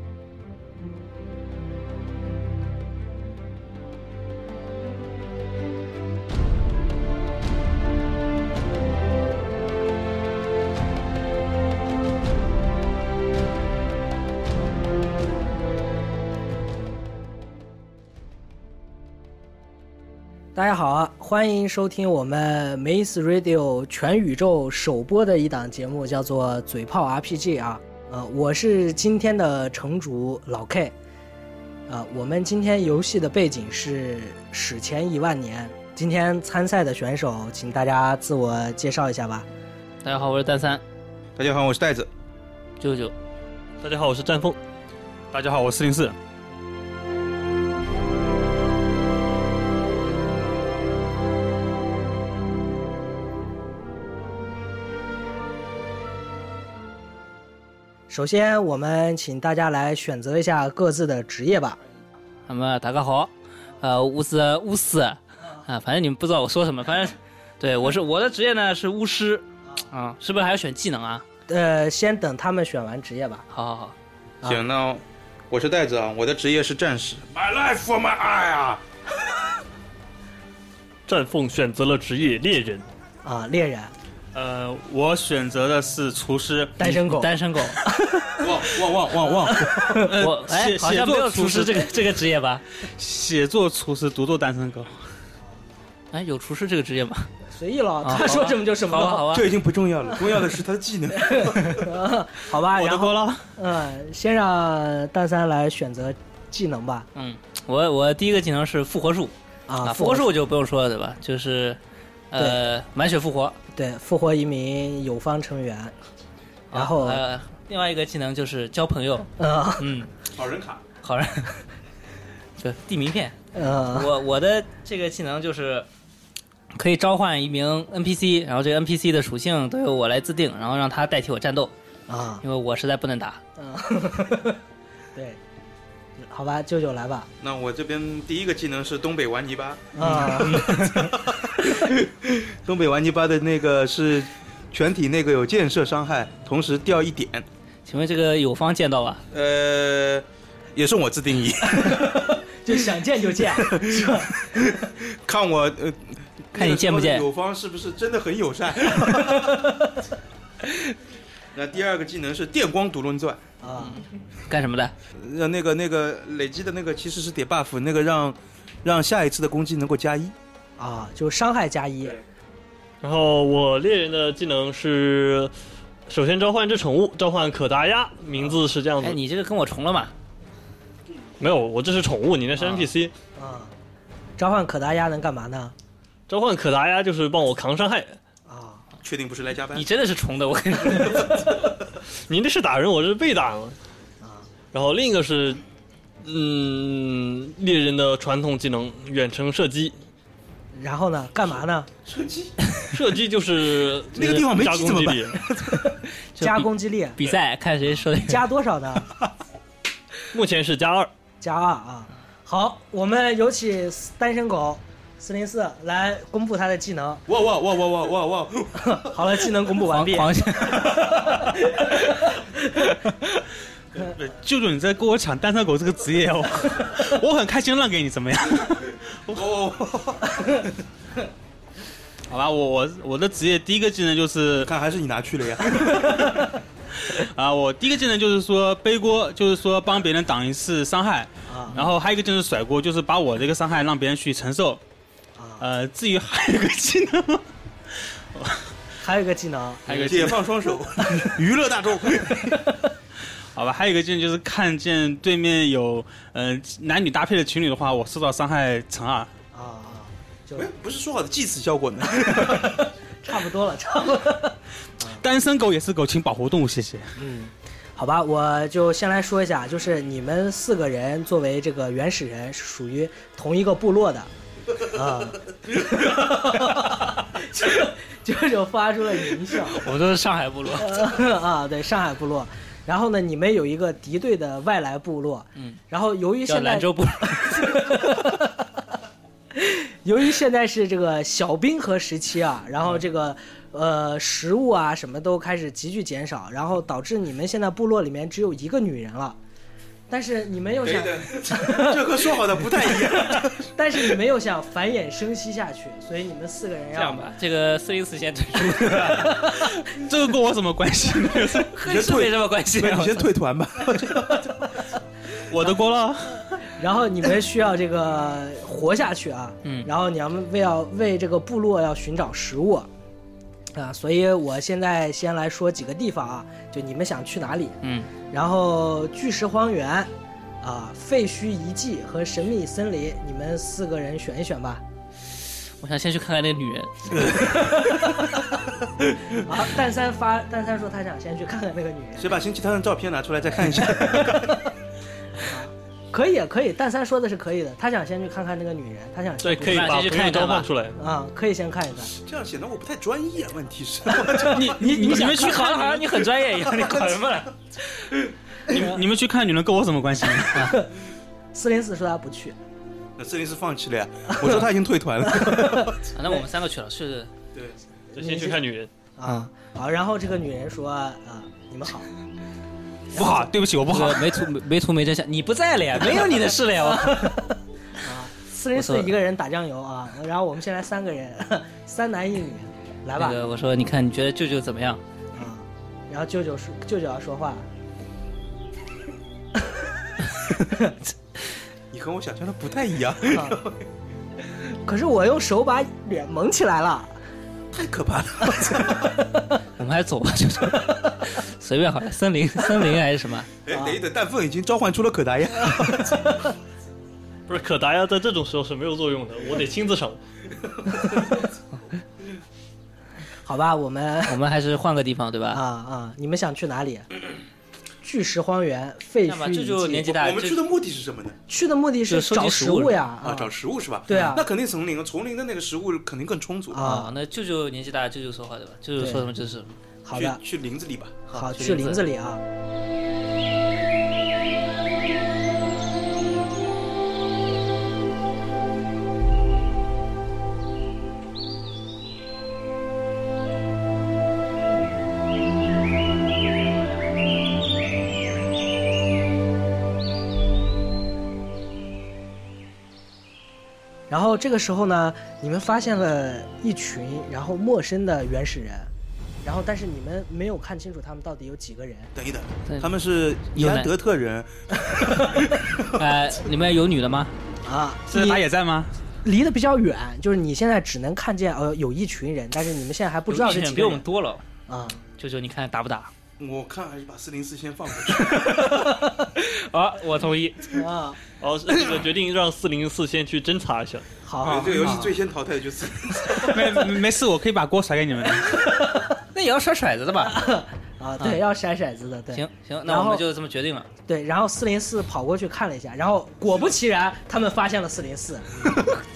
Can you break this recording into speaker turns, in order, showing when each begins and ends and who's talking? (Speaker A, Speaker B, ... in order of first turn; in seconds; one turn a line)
Speaker A: 20.5-30.9
Speaker A: 31.9-39.5
Speaker B: 40.0-40.8
Speaker C: 41.4-42.1
Speaker B: 42.8-43.1
Speaker D: 43.8-44.6
Speaker E: 45.3-46.1
Speaker A: 58.1-61.8
Speaker B: 62.5-71.2
Speaker A: 71.5-73.4
Speaker B: 73.5-74.0
Speaker C: 74.4-78.8
Speaker D: 81.1-82.8
Speaker A: 83.2-83.9
Speaker E: 84.3-86.8
Speaker A: 86.8-87.3
Speaker B: 86.8-87.8
Speaker A: 87.8-88.5
Speaker C: 88.4-89.7
Speaker A: 89.6-90.1
Speaker E: 90.0-92.0
Speaker B: 90.2-92.6
Speaker E: 92.8-94.9
Speaker B: 96.1-97.3
Speaker A: 97.5-99.3
Speaker B: 98.0-99.5
Speaker C: 99.3-101.9
Speaker A: 101.2-107.1
Speaker E: 102.6-103.4
Speaker B: 107.1-111.8
Speaker A: 109.7-110.3
Speaker B: 112.3-113.5
Speaker A: 113.7-115.9
Speaker B: 116.7-120.1
Speaker A: 116.7-117.2
Speaker A: 119.4-119.9
Speaker C: 120.3-120.8
Speaker B: 121.0-121.6
Speaker B: 122.6-123.3
Speaker A: 123.5-124.1
Speaker B: 123.9-125.8
Speaker B: 126.7-131.7
Speaker A: 132.1-132.4
Speaker B: 132.4-133.4
Speaker A: 133.6-134.6
Speaker A: 136.2-137.3
Speaker C: 137.4-147.4
Speaker A: 139.9-140.8
Speaker B: 140.0-141.2
Speaker B: 147.8-149.2
Speaker C: 149.3-150.2
Speaker C: 150.7-152.1
Speaker A: 151.7-154.3
Speaker C: 153.6-159.5
Speaker B: 156.5-157.2
Speaker A: 159.0-159.8
Speaker B: 160.7-160.9
Speaker C: 161.5-163.4
Speaker A: 163.6-164.0
Speaker B: 163.8-164.9
Speaker C: 165.1-170.3
Speaker A: 170.8-172.2
Speaker D: 173.0-175.5
Speaker D: 176.1-179.2
Speaker B: 179.0-180.1
Speaker D: 181.4-183.1
Speaker A: 183.3-183.7
Speaker A: 184.4-185.7
Speaker D: 186.3-188.2
Speaker A: 188.5-188.8
Speaker C: 189.0-189.9
Speaker B: 189.7-191.4
Speaker D: 192.3-193.8
Speaker A: 194.2-194.5
Speaker D: 194.7-195.6
Speaker D: 196.2-199.9
Speaker A: 200.7-201.9
Speaker C: 202.0-202.5
Speaker D: 202.9-205.4
Speaker C: 204.1-205.8
Speaker B: 206.3-208.4
Speaker A: 206.4-207.2
Speaker A: 208.1-209.1
Speaker D: 210.3-211.1
Speaker A: 211.4-217.2
Speaker C: 217.3-219.1
Speaker A: 218.8-222.9
Speaker B: 219.8-221.3
Speaker E: 224.0-229.4
Speaker C: 229.3-230.4
Speaker E: 232.3-234.7
Speaker C: 234.6-236.2
Speaker E: 235.7-236.3
Speaker E: 237.0-244.8
Speaker A: 241.5-241.8
Speaker A: 245.4-245.7
Speaker E: 245.6-247.4
Speaker A: 249.0-250.2
Speaker E: 249.9-250.4
Speaker C: 250.0-252.6
Speaker E: 253.5-259.3
Speaker A: 259.5-260.7
Speaker C: 260.6-262.8
Speaker A: 262.2-265.2
Speaker E: 265.2-267.1
Speaker A: 267.2-274.3
Speaker A: 274.8-280.0
Speaker B: 279.7-281.0
Speaker A: 280.8-288.6
Speaker B: 286.5-288.0
Speaker A: 289.5-299.4
Speaker A: 300.1-307.3
Speaker C: 300.8-304.1
Speaker B: 306.9-309.4
Speaker A: 309.1-309.6
Speaker E: 309.4-311.7
Speaker B: 311.7-313.3
Speaker C: 311.8-314.5
Speaker E: 315.5-316.6
Speaker A: 316.8-322.9
Speaker B: 319.6-319.9
Speaker A: 323.7-330.1
Speaker B: 327.8-328.1
Speaker A: 330.6-334.8
Speaker B: 335.8-337.7
Speaker A: 337.5-338.2
Speaker A: 339.4-342.4
Speaker C: 342.2-344.6
Speaker A: 343.8-344.5
Speaker A: 345.4-349.9
Speaker D: 349.4-351.0
Speaker B: 349.6-350.7
Speaker A: 351.0-352.1
Speaker C: 352.1-355.1
Speaker E: 354.4-356.0
Speaker A: 354.5-356.0
Speaker B: 355.1-358.1
Speaker E: 358.7-360.8
Speaker A: 358.7-359.0
Speaker A: 360.6-360.9
Speaker A: 361.5-362.5
Speaker C: 363.2-366.0
Speaker A: 364.3-364.6
Speaker A: 365.3-366.4
Speaker B: 366.1-367.3
Speaker D: 368.1-368.9
Speaker A: 368.2-368.6
Speaker A: 369.2-372.1
Speaker A: 373.1-373.5
Speaker E: 373.1-374.2
Speaker B: 373.9-377.4
Speaker A: 376.8-383.4
Speaker B: 378.7-379.1
Speaker B: 383.1-385.0
Speaker A: 385.3-387.6
Speaker A: 390.6-390.9
Speaker C: 391.9-393.8
Speaker A: 393.2-393.6
Speaker A: 394.7-397.1
Speaker C: 397.7-399.2
Speaker A: 398.6-398.9
Speaker B: 399.8-403.5
Speaker C: 403.6-406.2
Speaker A: 403.7-404.0
Speaker D: 407.5-410.2
Speaker A: 413.4-414.4
Speaker B: 414.3-415.6
Speaker A: 415.5-417.1
Speaker A: 418.0-420.1
Speaker B: 419.2-420.6
Speaker C: 420.1-421.4
Speaker A: 421.5-423.5
Speaker B: 422.1-423.0
Speaker C: 423.2-426.9
Speaker A: 424.1-424.4
Speaker A: 426.7-427.1
Speaker B: 426.8-429.7
Speaker A: 429.0-429.2
Speaker A: 430.0-430.4
Speaker C: 430.1-431.2
Speaker B: 431.3-432.0
Speaker A: 431.3-432.4
Speaker A: 454.1-458.9
Speaker A: 459.4-462.1
Speaker C: 462.1-466.0
Speaker B: 463.5-463.9
Speaker A: 464.9-465.3
Speaker B: 465.9-467.3
Speaker A: 467.6-468.4
Speaker E: 468.1-468.9
Speaker A: 469.2-474.0
Speaker B: 473.3-474.4
Speaker A: 474.7-475.0
Speaker B: 475.2-476.1
Speaker C: 476.4-478.8
Speaker B: 478.2-480.8
Speaker A: 480.7-481.2
Speaker D: 481.4-484.1
Speaker A: 484.2-485.1
Speaker C: 484.4-486.6
Speaker E: 486.3-488.6
Speaker A: 488.7-489.1
Speaker B: 489.3-490.4
Speaker A: 490.2-493.2
Speaker B: 492.3-493.9
Speaker A: 494.1-498.7